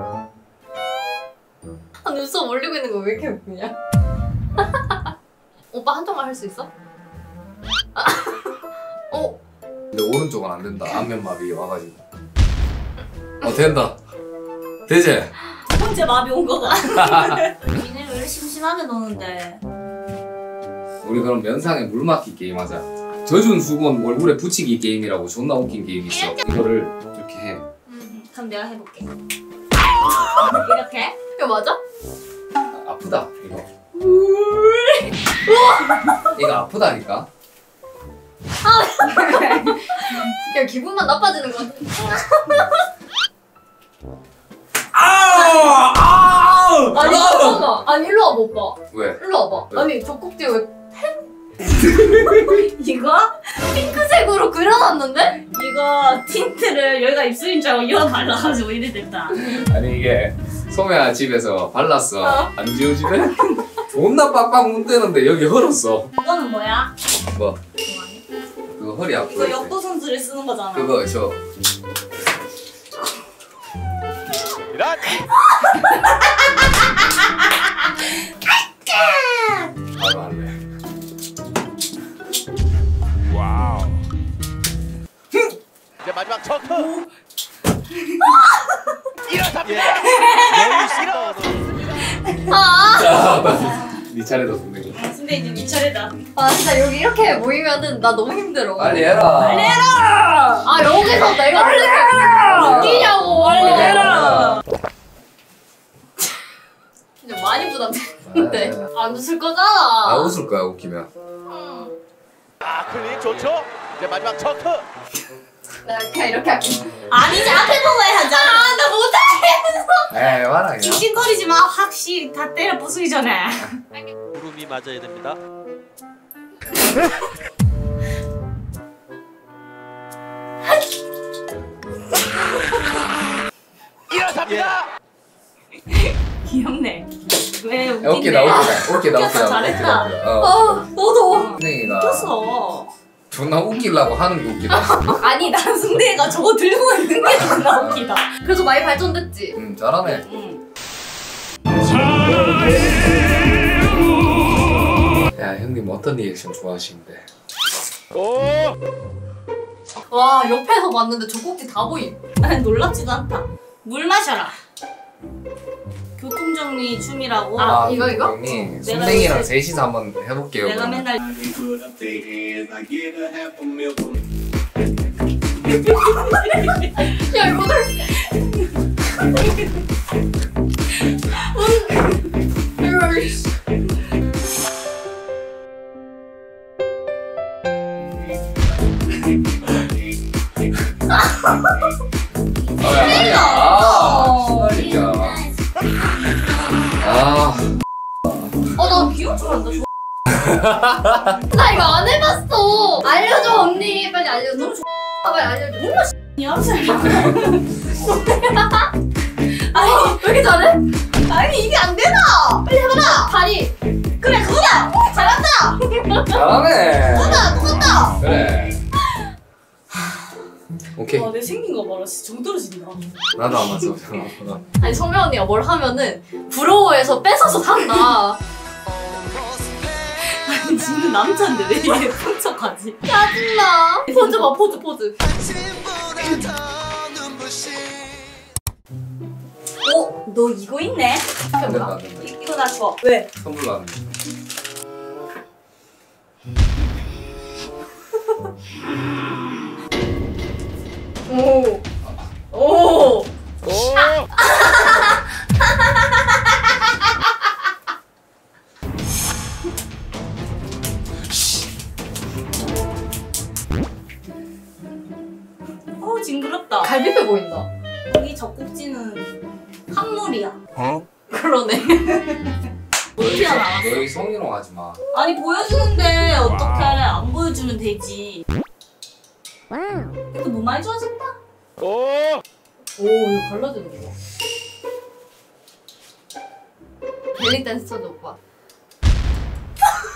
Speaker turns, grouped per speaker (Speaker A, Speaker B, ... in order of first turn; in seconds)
Speaker A: 2.0-3.8, 4.6-5.1, 5.7-6.7, 8.0-8.6, 9.1-9.4, 27.9-28.1, 31.4-31.8, 34.0-34.9, 35.5-36.3, 38.6-42.6, 46.9-51.2, 53.7-55.4, 62.2-62.5, 92.5-93.4, 96.3-99.2, 100.6-104.4, 107.2-110.3, 111.5-111.9, 115.8-120.1, 140.4-141.6, 144.7-145.4, 148.4-149.6, 160.1-162.2, 167.6-168.6, 177.0-178.2, 181.4-182.2, 182.8-183.5, 201.5-203.2, 205.2-206.0, 208.2-208.9, 209.7-210.8, 212.8-213.7, 215.1-216.4, 224.8-228.4, 233.1-235.2, 241.6-241.9, 251.3-251.8, 252.5-253.3, 254.4-255.1, 266.8-267.7, 271.3-272.7, 283.0-284.1, 287.4-288.4
Speaker B: 9.9-12.0, 13.4-14.0, 14.9-15.3, 17.0-17.4, 21.0-27.6, 32.7-33.7, 36.3-37.3, 44.9-47.8, 48.9-49.9, 59.4-66.1, 67.3-67.6, 68.8-69.8, 70.7-71.4, 80.0-80.6, 92.9-95.0, 98.8-99.9, 102.2-104.6, 108.2-108.9, 110.0-111.1, 120.1-121.1, 138.0-140.8, 141.5-142.4, 143.3-145.2, 147.7-148.2, 149.5-150.3, 155.3-157.3, 167.6-171.1, 192.8-195.5, 197.0-197.8, 200.3-201.1, 216.3-218.8, 221.0-221.3, 223.4-224.7, 241.6-242.3, 243.4-244.1, 273.2-275.0
Speaker C: 15.5-19.6, 26.1-26.4, 28.0-29.1, 30.4-31.2, 39.5-40.3, 52.1-53.6, 55.3-59.5, 66.2-66.9, 67.8-68.2, 69.3-71.0, 75.0-79.7, 86.7-87.1, 87.9-89.0, 89.8-91.1, 92.0-92.5, 93.6-94.0, 94.9-96.2, 99.4-100.7, 101.7-104.6, 117.1-118.8, 120.8-123.8, 135.8-140.2, 141.3-142.9, 145.2-148.3, 150.0-150.6, 162.4-164.6, 166.2-167.8, 168.8-169.5, 170.6-171.4, 175.7-177.1, 192.8-195.5, 198.8-199.9, 203.1-204.8, 205.8-207.7, 209.7-210.2, 211.1-213.3, 214.2-215.8, 217.1-218.2, 221.2-223.0, 230.2-233.0, 234.1-234.5, 236.2-236.6, 239.8-241.3, 242.1-243.3, 266.0-266.9, 268.1-269.4, 269.9-270.6, 273.1-274.2, 275.1-278.4, 280.3-281.4
Speaker D: 74.7-75.0, 86.0-86.8, 89.3-91.6, 112.6-114.9, 124.3-125.4, 134.2-134.8, 158.2-158.7
Speaker E: 171.5-174.2, 237.1-237.7